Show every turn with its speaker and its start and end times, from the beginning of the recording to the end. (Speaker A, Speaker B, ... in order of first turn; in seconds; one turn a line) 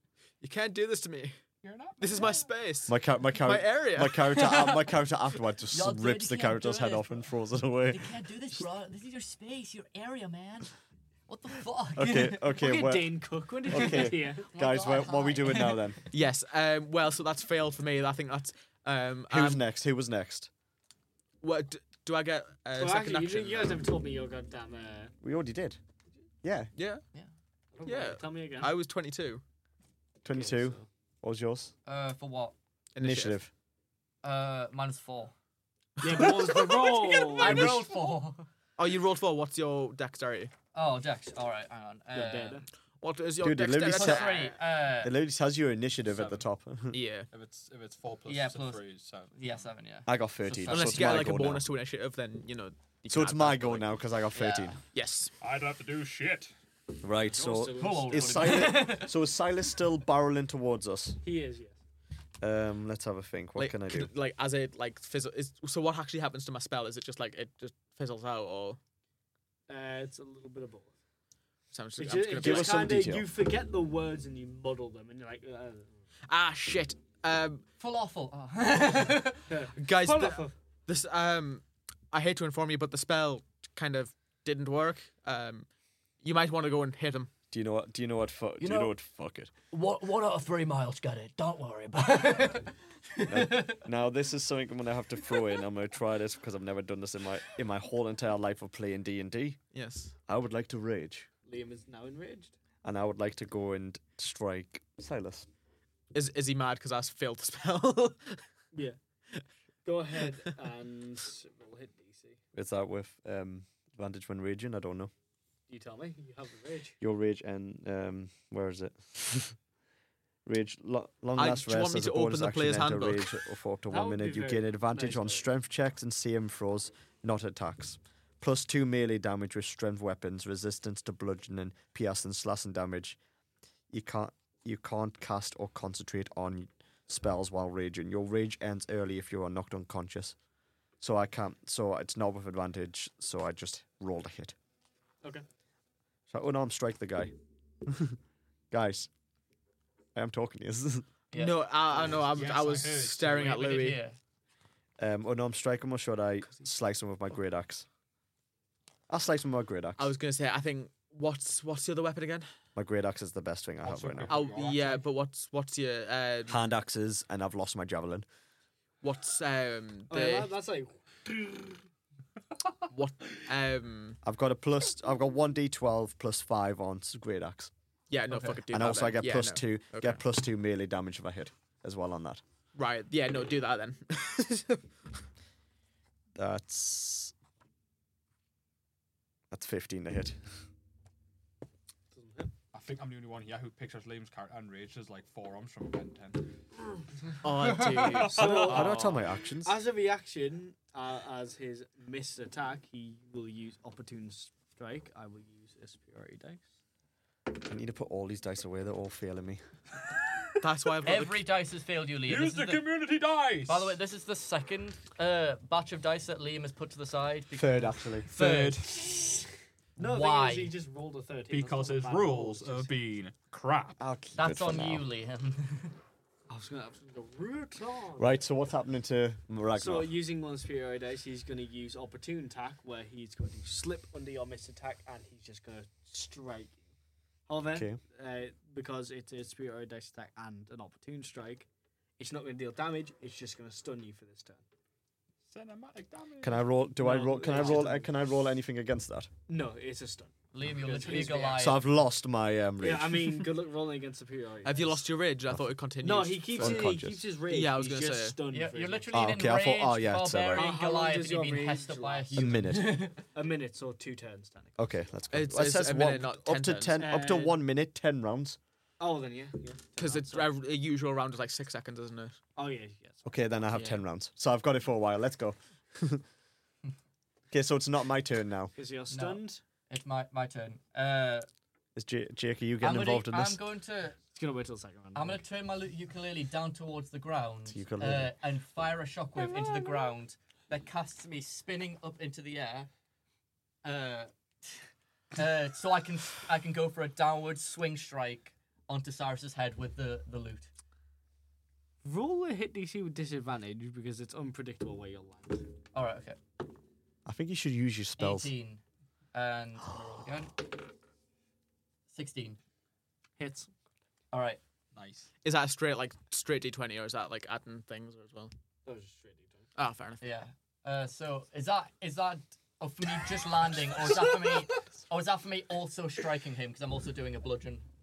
Speaker A: 0.4-1.4
Speaker B: 1.6-2.5
Speaker A: 2.0-4.4
Speaker C: 2.9-8.1
Speaker D: 4.4-4.7
Speaker D: 5.7-7.2
Speaker D: 7.9-10.7
Speaker D: 11.3-12.5
Speaker C: 11.9-16.0
Speaker E: 12.5-14.5
Speaker D: 13.8-16.0
Speaker A: 16.1-19.6
Speaker C: 19.3-20.5
Speaker A: 21.4-23.8
Speaker E: 22.8-25.1
Speaker C: 25.2-25.8
Speaker C: 26.4-26.7
Speaker A: 26.8-27.0
Speaker E: 27.7-28.7
Speaker A: 27.8-29.4
Speaker C: 30.2-31.7
Speaker E: 30.3-30.9
Speaker D: 31.9-32.5
Speaker A: 32.9-33.4
Speaker C: 33.0-33.5
Speaker D: 34.2-35.3
Speaker A: 36.0-37.8
Speaker E: 36.0-37.8
Speaker D: 37.3-38.5
Speaker A: 38.8-40.5
Speaker D: 40.7-42.6
Speaker E: 42.1-42.6
Speaker A: 43.0-44.5
Speaker C: 43.4-44.4
Speaker D: 43.8-45.1
Speaker C: 45.0-47.0
Speaker B: 46.1-46.5
Speaker A: 46.9-47.3
Speaker B: 47.3-49.6
Speaker D: 48.2-51.2
Speaker C: 50.1-51.6
Speaker A: 50.6-54.0
Speaker C: 53.1-54.8
Speaker D: 54.3-54.7
Speaker A: 54.8-55.3
Speaker B: 55.4-56.5
Speaker C: 57.0-61.2
Speaker E: 57.3-58.9
Speaker D: 57.8-59.1
Speaker E: 61.2-61.8
Speaker C: 62.4-64.1
Speaker A: 63.5-68.8
Speaker E: 69.7-70.9
Speaker A: 71.7-73.0
Speaker E: 72.0-75.9
Speaker C: 72.4-73.3
Speaker A: 76.3-77.6
Speaker D: 77.8-79.5
Speaker E: 79.5-80.5
Speaker A: 79.8-85.7
Speaker A: 86.2-87.3
Speaker C: 87.5-89.5
Speaker F: 88.6-88.9
Speaker F: 89.7-92.6
Speaker D: 92.0-92.7
Speaker D: 93.2-93.8
Speaker C: 93.3-99.6
Speaker A: 99.7-100.1
Speaker C: 100.3-101.3
Speaker E: 101.5-102.5
Speaker C: 102.8-105.5
Speaker A: 106.1-108.4
Speaker E: 109.8-112.4
Speaker C: 112.5-115.1
Speaker E: 115.7-117.0
Speaker C: 117.0-119.5
Speaker C: 120.5-133.2
Speaker A: 121.3-123.3
Speaker E: 123.9-125.5
Speaker C: 133.9-140.3
Speaker C: 141.0-144.5
Speaker C: 146.3-147.3
Speaker C: 147.8-148.2
Speaker C: 148.7-149.1
Speaker C: 150.1-151.1
Speaker D: 151.3-151.6
Speaker A: 151.3-154.0
Speaker B: 151.9-153.8
Speaker D: 153.7-154.2
Speaker C: 155.0-157.9
Speaker C: 159.1-160.1
Speaker A: 160.0-162.5
Speaker C: 162.8-164.4
Speaker B: 163.8-165.0
Speaker A: 164.3-166.6
Speaker C: 166.5-168.2
Speaker A: 169.0-170.5
Speaker E: 170.1-171.8
Speaker A: 172.9-174.2
Speaker C: 174.2-177.7
Speaker A: 178.1-180.2
Speaker C: 178.7-182.4
Speaker A: 182.7-184.8
Speaker C: 186.3-187.3
Speaker C: 189.5-190.4
Speaker E: 192.1-192.5
Speaker B: 192.7-196.6
Speaker A: 197.4-199.2
Speaker D: 197.7-198.1
Speaker E: 198.2-206.7
Speaker C: 198.3-199.8
Speaker C: 207.5-209.6
Speaker A: 210.6-211.4
Speaker D: 211.0-212.9
Speaker B: 212.2-214.0
Speaker D: 213.7-218.8
Speaker C: 217.6-218.3
Speaker B: 218.3-219.3
Speaker D: 220.0-220.7
Speaker E: 220.0-222.9
Speaker B: 221.5-224.0
Speaker C: 224.0-225.1
Speaker D: 224.4-225.9
Speaker E: 226.5-228.4
Speaker C: 228.2-230.2
Speaker E: 229.8-236.8
Speaker E: 237.5-241.7
Speaker C: 237.7-238.0
Speaker E: 242.2-244.6
Speaker B: 245.5-246.7
Speaker C: 246.4-249.3
Speaker E: 247.0-248.1
Speaker E: 249.5-251.8
Speaker D: 250.5-251.8
Speaker C: 251.5-253.4
Speaker E: 252.8-255.0
Speaker A: 254.6-258.4
Speaker E: 256.0-259.1
Speaker C: 256.6-257.3
Speaker D: 258.5-263.1
Speaker C: 259.1-260.7
Speaker E: 260.5-262.6
Speaker C: 262.4-263.1
Speaker E: 263.3-264.8
Speaker C: 264.8-268.6
Speaker A: 265.3-267.0
Speaker E: 267.0-267.6
Speaker E: 269.0-270.5
Speaker A: 270.0-272.4
Speaker E: 272.6-273.7
Speaker C: 273.2-276.2
Speaker A: 273.7-274.0
Speaker C: 277.5-278.7
Speaker E: 278.7-279.6
Speaker D: 279.1-281.5
Speaker C: 281.9-283.6
Speaker D: 282.8-284.2
Speaker E: 284.3-285.4
Speaker D: 285.1-292.9
Speaker C: 287.7-288.3
Speaker D: 293.8-294.8
Speaker D: 295.4-300.7
Speaker E: 302.0-305.7
Speaker D: 305.9-306.4
Speaker C: 307.2-308.5
Speaker D: 308.2-308.8
Speaker D: 309.3-310.6
Speaker D: 312.1-312.6
Speaker E: 313.4-313.7
Speaker D: 314.3-314.6
Speaker B: 314.9-315.3
Speaker A: 315.4-318.5
Speaker E: 318.8-319.6
Speaker A: 319.8-320.2
Speaker D: 320.2-327.9